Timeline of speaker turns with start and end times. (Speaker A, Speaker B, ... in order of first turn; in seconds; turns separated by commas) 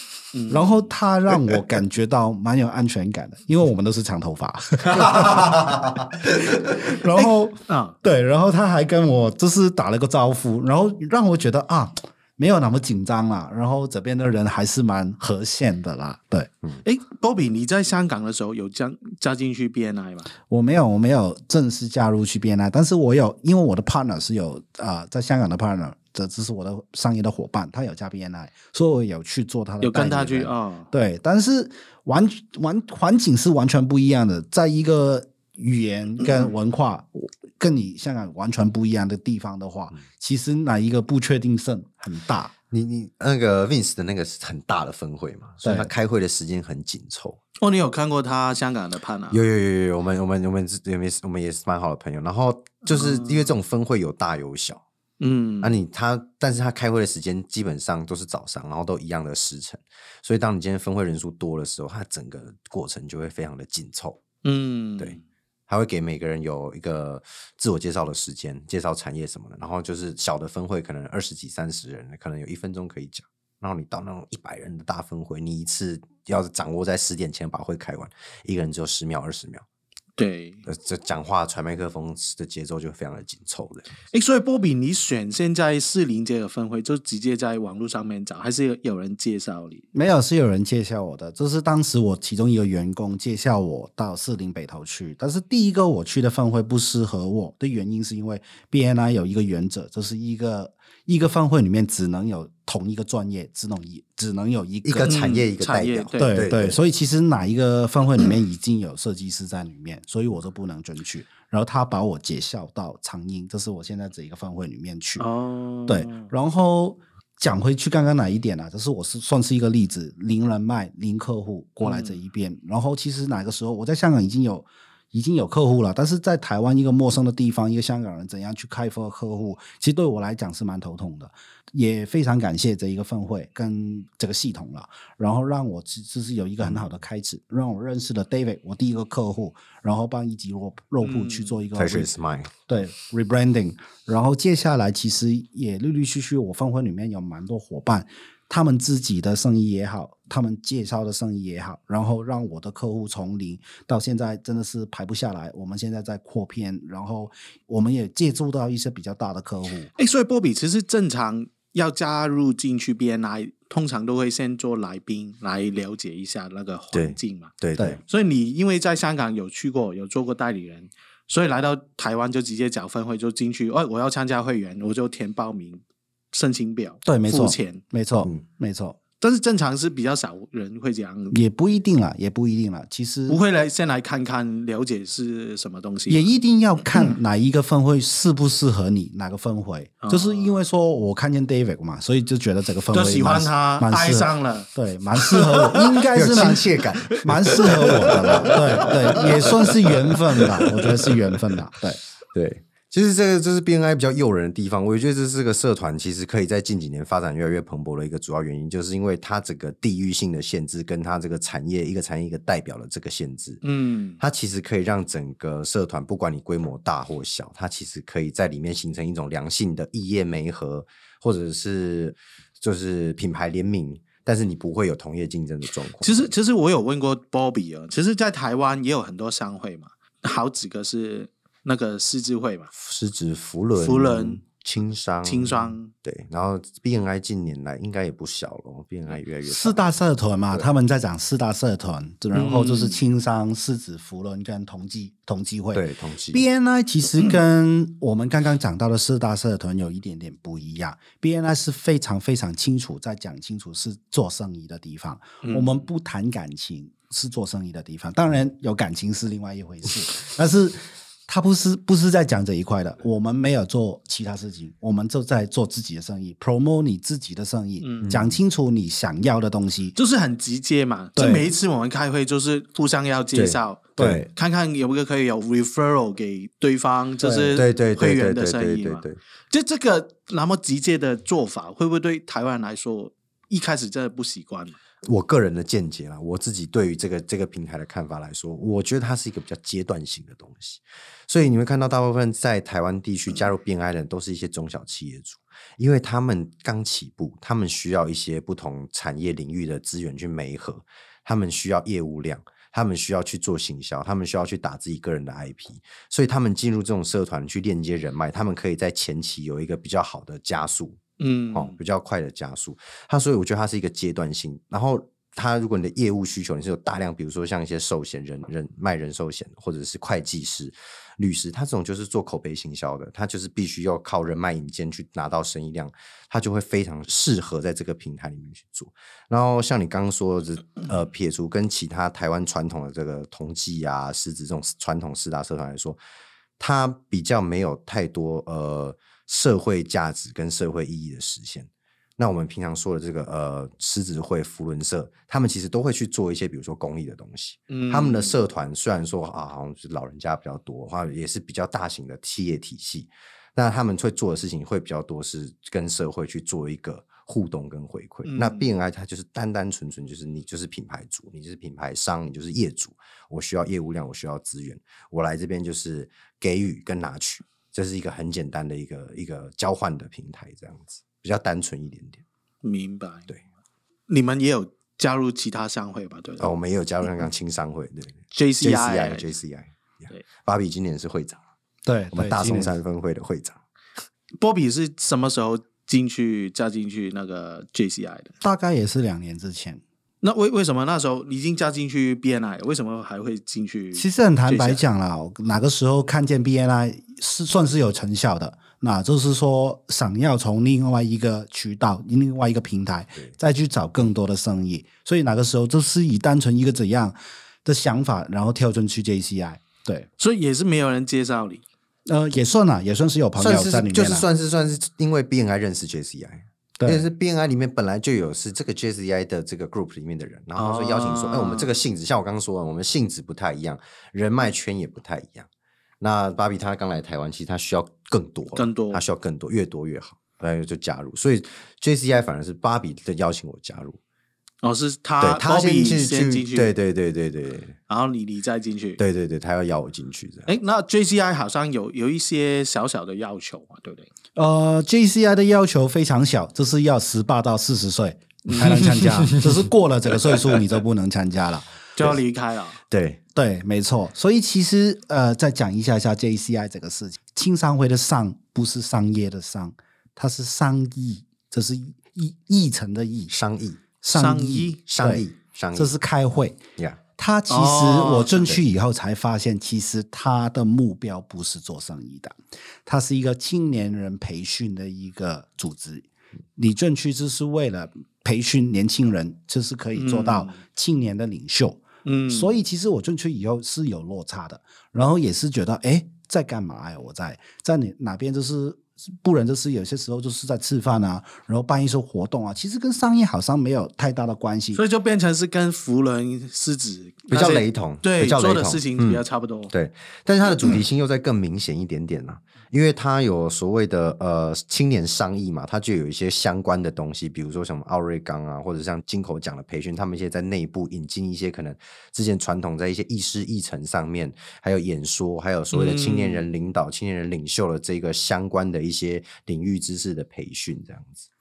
Speaker A: 0.3-0.9, Speaker B: 0.5-16.5, Speaker A: 7.2-8.0, Speaker A: 16.8-20.3, Speaker B: 20.5-42.5, Speaker A: 29.8-30.9, Speaker C: 42.7-47.4, Speaker B: 45.6-45.9, Speaker A: 47.6-49.4, Speaker C: 49.3-54.8, Speaker A: 52.9-53.5, Speaker A: 55.2-55.8, Speaker C: 55.6-64.2, Speaker A: 64.4-65.2, Speaker C: 65.7-79.7, Speaker A: 80.2-80.7, Speaker C: 80.7-83.9, Speaker A: 84.1-89.9, Speaker B: 89.9-105.2, Speaker C: 104.8-106.8, Speaker A: 105.0-106.4, Speaker B: 106.2-115.3, Speaker A: 115.2-116.3, Speaker B: 115.9-142.1, Speaker A: 121.8-122.2, Speaker C: 136.6-136.9, Speaker A: 141.0-141.6, Speaker C: 141.8-142.6, Speaker B: 142.7-159.9, Speaker A: 160.0-177.8, Speaker C: 166.9-168.0, Speaker B: 177.1-179.0, Speaker A: 179.2-181.4, Speaker B: 181.3-183.4, Speaker A: 183.3-186.3, Speaker B: 186.1-202.0, Speaker A: 190.0-190.5, Speaker A: 192.9-196.1, Speaker C: 196.1-199.0, Speaker A: 197.1-200.9, Speaker C: 202.3-213.6, Speaker A: 213.6-214.2, Speaker C: 214.2-226.3, Speaker A: 226.0-232.7, Speaker C: 232.8-240.0, Speaker A: 233.8-234.4, Speaker A: 235.2-235.9, Speaker B: 239.5-269.9, Speaker A: 242.3-243.0, Speaker C: 245.7-246.4, Speaker A: 255.4-255.8, Speaker A: 267.8-268.2, Speaker C: 268.1-268.4, Speaker A: 270.0-284.8, Speaker B: 271.2-271.5, Speaker C: 273.3-274.3, Speaker B: 274.0-274.3, Speaker B: 277.2-277.6, Speaker C: 277.6-279.2, Speaker C: 285.1-311.0, Speaker A: 311.2-311.8, Speaker C: 311.5-336.0, Speaker C: 336.6-372.2, Speaker A: 347.7-348.4, Speaker A: 358.2-358.7, Speaker A: 372.6-373.3, Speaker A: 374.1-376.5, Speaker C: 376.4-381.4, Speaker A: 378.3-379.3, Speaker B: 381.9-382.7, Speaker C: 382.1-383.6, Speaker A: 384.4-388.3, Speaker B: 388.4-389.8, Speaker A: 390.2-394.8, Speaker B: 393.9-410.1, Speaker A: 410.2-411.6, Speaker B: 412.1-414.3, Speaker C: 413.4-425.5, Speaker B: 416.8-417.1, Speaker A: 420.6-421.7, Speaker C: 426.0-434.0, Speaker A: 428.6-429.0, Speaker A: 434.6-436.7, Speaker C: 435.2-437.8, Speaker A: 437.9-439.0, Speaker C: 439.0-440.5, Speaker A: 440.5-444.1, Speaker B: 444.4-451.7, Speaker A: 448.5-449.0, Speaker A: 452.0-452.8, Speaker C: 452.9-453.2, Speaker B: 453.4-463.3, Speaker C: 463.3-463.8, Speaker B: 464.0-466.6, Speaker A: 464.1-464.8, Speaker C: 464.9-465.9, Speaker B: 467.2-494.8, Speaker A: 467.5-468.5, Speaker A: 479.9-480.6, Speaker A: 482.1-482.6, Speaker A: 494.7-499.7, Speaker C: 497.3-521.2, Speaker A: 515.7-516.4